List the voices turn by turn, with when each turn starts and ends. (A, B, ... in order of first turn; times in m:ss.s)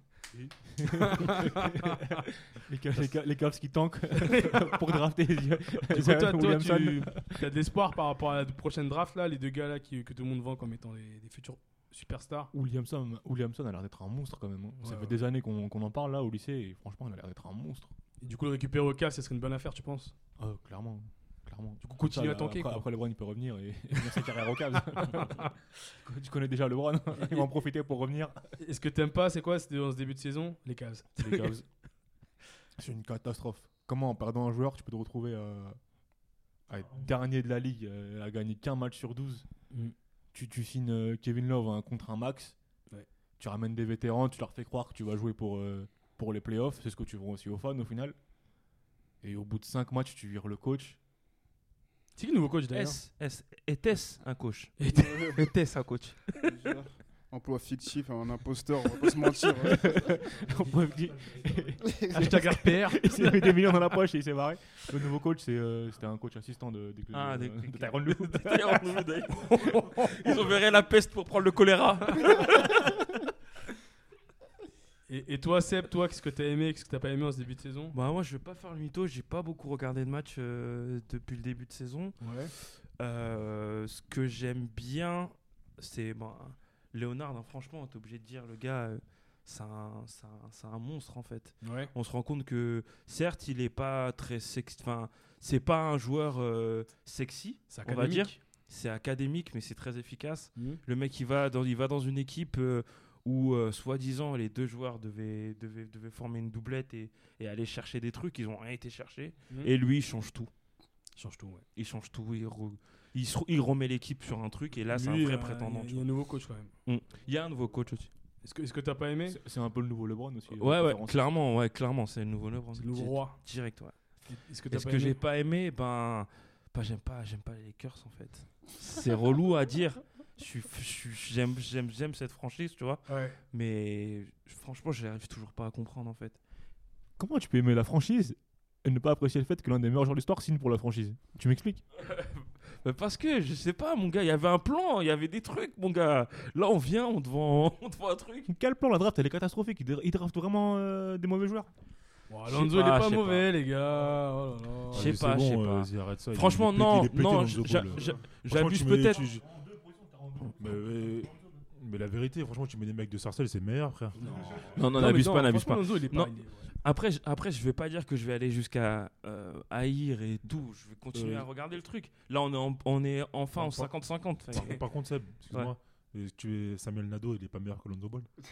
0:00.3-0:07.5 A
0:01.0-0:02.0 B
0:04.2-0:05.0 B
0:05.8-0:12.5 B
0:12.5-0:17.9 A
0:14.8-0:15.2 B
0:18.2-0:20.1 B
0:20.4-0:28.4 A
0:21.8-0:22.8 B
0:24.9-0:25.5 B
0:27.2-0:27.5 B
0:28.6-0:31.6 B
0:31.2-0:31.6 A
0:32.8-0:35.8 A
0:36.7-0:39.4 A
0:36.7-0:37.2 C
0:40.3-0:42.6 A
0:43.4-0:48.2 A
0:49.2-0:51.0 A
0:52.2-0:53.0 B
0:52.7-0:54.8 D
0:54.8-0:55.5 B
0:54.9-0:55.4 E
0:55.3-0:56.3 D
0:56.4-0:59.9 E
0:59.7-1:08.8 A
1:00.6-1:01.6 C
1:01.9-1:02.4 E
1:02.1-1:03.7 B
1:07.1-1:12.8 D
1:15.1-1:17.9 B
1:17.9-1:50.5 D
1:22.2-1:22.5 B
1:31.6-1:31.9 B
1:37.7-1:38.4 B
1:40.6-1:40.8 B
1:51.2-1:51.6 B
1:51.7-1:56.1 D
1:54.9-1:56.7 B
1:56.8-1:58.1 D
1:58.4-1:59.4 B
1:59.3-2:01.2 A
2:00.5-2:04.0 D
2:02.8-2:03.4 B
2:04.3-2:05.2 B
2:04.7-2:16.4 D
2:13.1-2:13.4 B
2:17.2-2:21.8 A
2:21.9-2:28.5 D
2:28.5-2:31.7 A
2:32.3-2:35.2 B
2:32.5-2:33.5 D
2:34.9-2:39.5 C
2:34.9-2:39.2 D
2:39.1-2:41.6 A
2:40.6-2:44.2 C
2:44.1-2:46.7 B
2:44.5-2:54.8 D
2:44.8-2:45.3 A
2:51.1-2:51.5 C
2:53.5-2:58.3 C